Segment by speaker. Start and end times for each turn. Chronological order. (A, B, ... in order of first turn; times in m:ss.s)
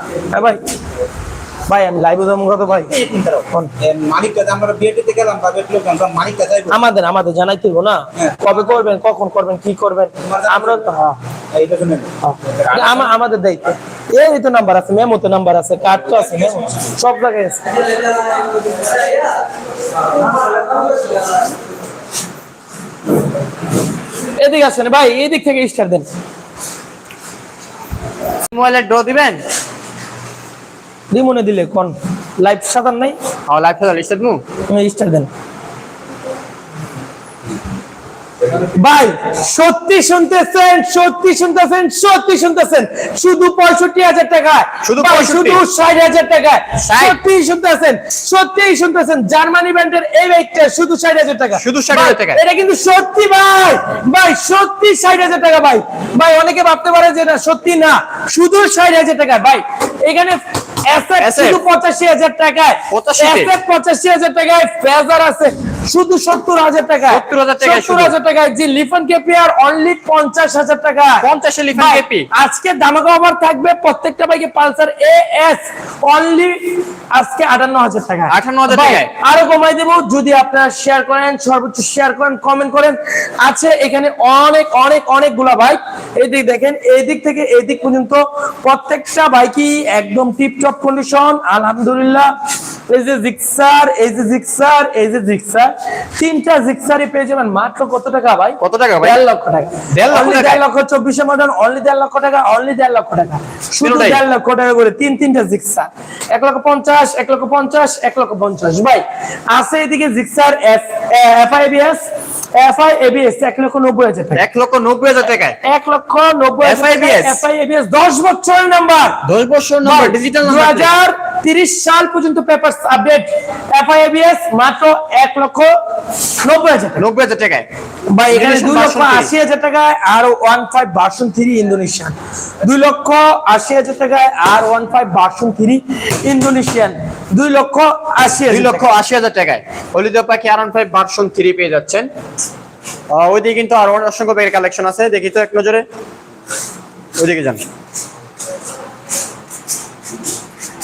0:00.3-0:00.6 A
0:01.7-0:02.9 A
0:03.0-0:06.7 B
0:06.7-0:11.2 A
0:10.3-0:10.8 B
0:11.5-0:12.1 B
0:12.2-0:17.6 A
0:24.4-0:26.1 A
0:28.5-0:29.4 C
0:31.1-0:33.2 A
0:33.5-0:34.4 C
0:34.7-0:35.3 A
0:38.6-1:32.3 A
0:44.8-0:45.6 C
0:46.8-0:47.2 C
0:51.6-0:52.4 C
1:01.2-1:01.6 C
1:02.9-1:03.5 C
1:07.1-1:08.1 C
1:11.2-1:12.3 C
1:18.3-1:19.1 C
1:32.9-1:52.0 A
1:38.6-1:39.2 C
1:39.9-1:40.6 C
1:43.8-1:44.2 C
1:52.6-1:54.4 A
1:54.4-1:55.6 C
1:55.6-1:59.2 A
1:56.6-1:57.4 C
1:59.2-2:00.9 C
1:59.8-2:05.7 A
2:06.4-2:07.1 A
2:07.0-2:07.7 C
2:08.1-2:18.9 A
2:08.3-2:09.3 C
2:18.5-2:22.1 C
2:23.1-2:25.8 C
2:27.2-2:27.6 C